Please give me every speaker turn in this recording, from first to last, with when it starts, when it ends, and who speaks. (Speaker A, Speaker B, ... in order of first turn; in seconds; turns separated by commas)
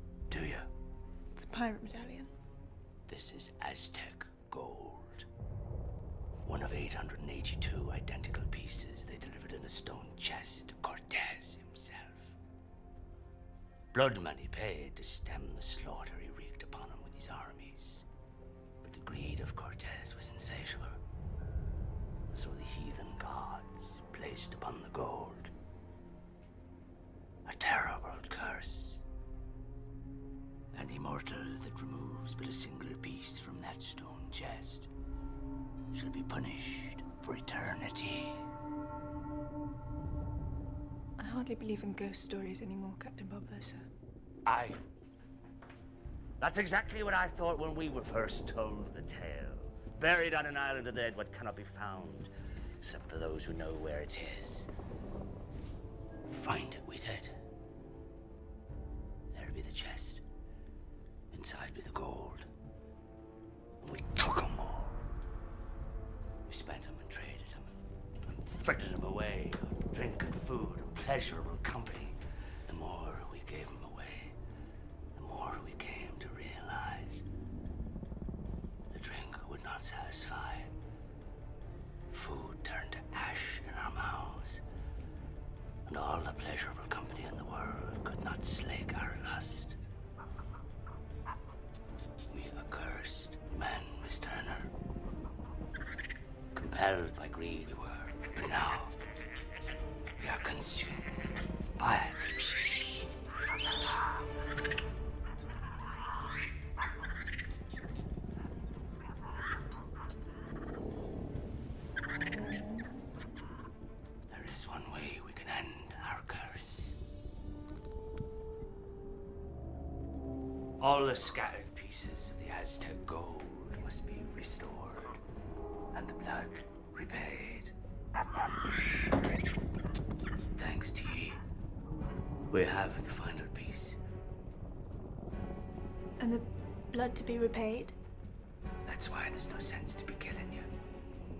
Speaker A: 0.3-0.7, Speaker B: 1.3-2.3, Speaker A: 3.1-5.3, Speaker A: 6.4-12.3, Speaker A: 13.9-18.1, Speaker A: 18.8-21.0, Speaker A: 22.3-25.5, Speaker A: 27.4-29.0, Speaker A: 30.7-34.9, Speaker A: 35.9-38.5, Speaker B: 41.2-43.9, Speaker A: 44.5-44.8, Speaker A: 46.4-54.7, Speaker A: 56.3-57.3, Speaker A: 59.3-60.2, Speaker A: 61.3-62.5, Speaker A: 63.8-65.0, Speaker A: 66.5-74.3, Speaker A: 75.1-77.2, Speaker A: 78.9-80.7, Speaker A: 82.1-84.6, Speaker A: 85.8-89.8, Speaker A: 92.3-94.7, Speaker A: 96.5-99.0, Speaker A: 100.2-101.1, Speaker A: 101.8-102.4, Speaker A: 114.3-117.0, Speaker A: 120.8-125.2, Speaker A: 125.9-127.7, Speaker A: 130.5-131.4, Speaker A: 132.5-134.0, Speaker B: 136.2-138.0, Speaker A: 138.8-140.7